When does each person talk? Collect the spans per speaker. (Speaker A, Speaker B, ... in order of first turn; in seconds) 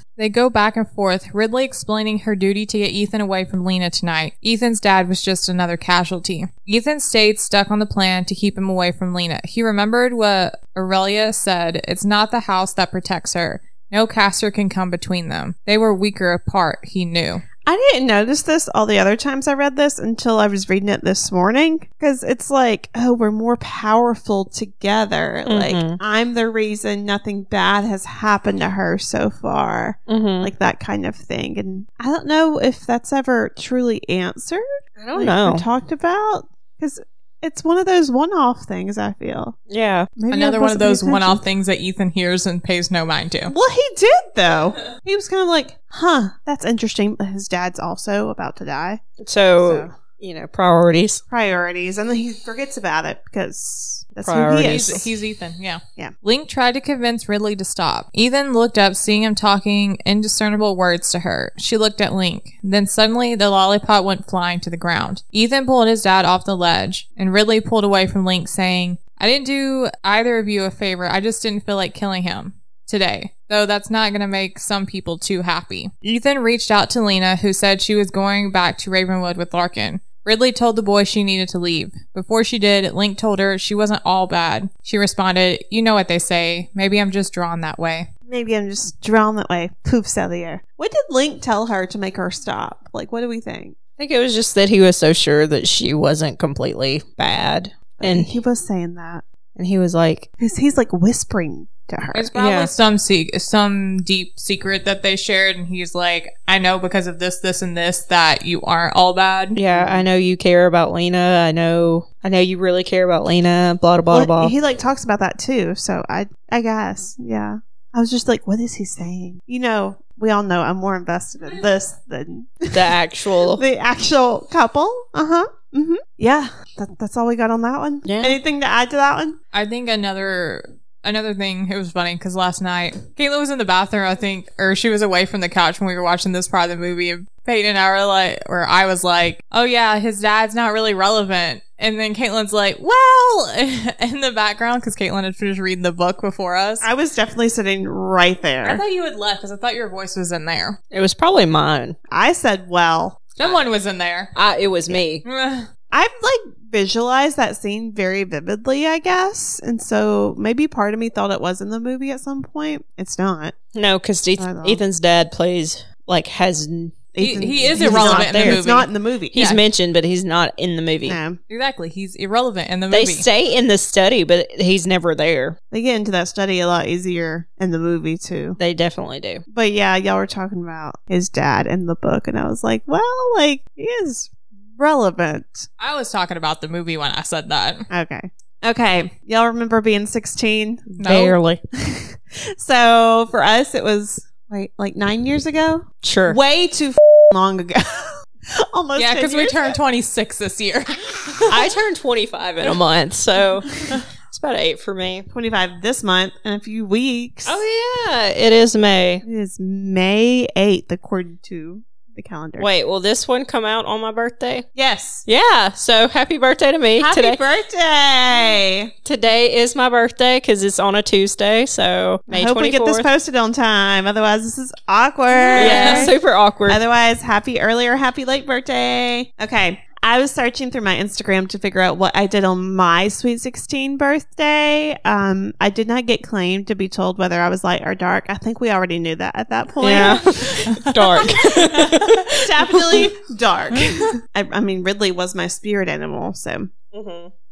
Speaker A: 0.2-17.4, 40.3-43.5, 54.6-88.1, 102.1-109.6, 129.5-146.8, 148.6-150.8, 153.4-154.3, 155.2-155.7, 167.2-169.6, 171.5-173.2, 185.8-187.9, 191.0-191.3, 198.9-201.7, 225.4-226.1, 240.0-241.3
Speaker B: 17.6-39.6, 40.2-41.4, 43.5-49.0, 49.6-49.9, 51.3-55.1, 88.3-93.7, 98.0-99.2, 100.4-102.3, 109.7-110.0, 114.1-122.9, 123.5-129.4, 146.8-148.8, 152.1-153.3, 155.9-163.5, 164.4-164.8, 167.1-169.4, 171.0-171.4, 175.7-178.6, 179.5-185.7, 187.9-190.9, 191.8-199.8, 205.3-207.6, 209.2-212.7, 214.7-215.2, 217.0-218.9, 222.3-226.1, 226.7-246.7
Speaker C: 25.4-26.0, 30.1-30.5, 35.0-35.6, 39.7-40.1, 49.2-51.2, 54.2-55.0, 94.0-98.3, 99.5-100.3, 102.3-102.7, 109.5-114.5, 122.7-123.6, 128.0-128.4, 150.9-151.9, 154.3-155.2, 163.7-167.1, 167.7-168.6, 169.3-171.2, 172.9-175.6, 178.6-179.4, 191.0-191.6, 196.0-196.4, 201.5-205.3, 207.4-209.2, 212.6-214.7, 215.2-217.4, 219.0-223.1, 225.6-226.8, 239.8-243.1, 246.9-247.3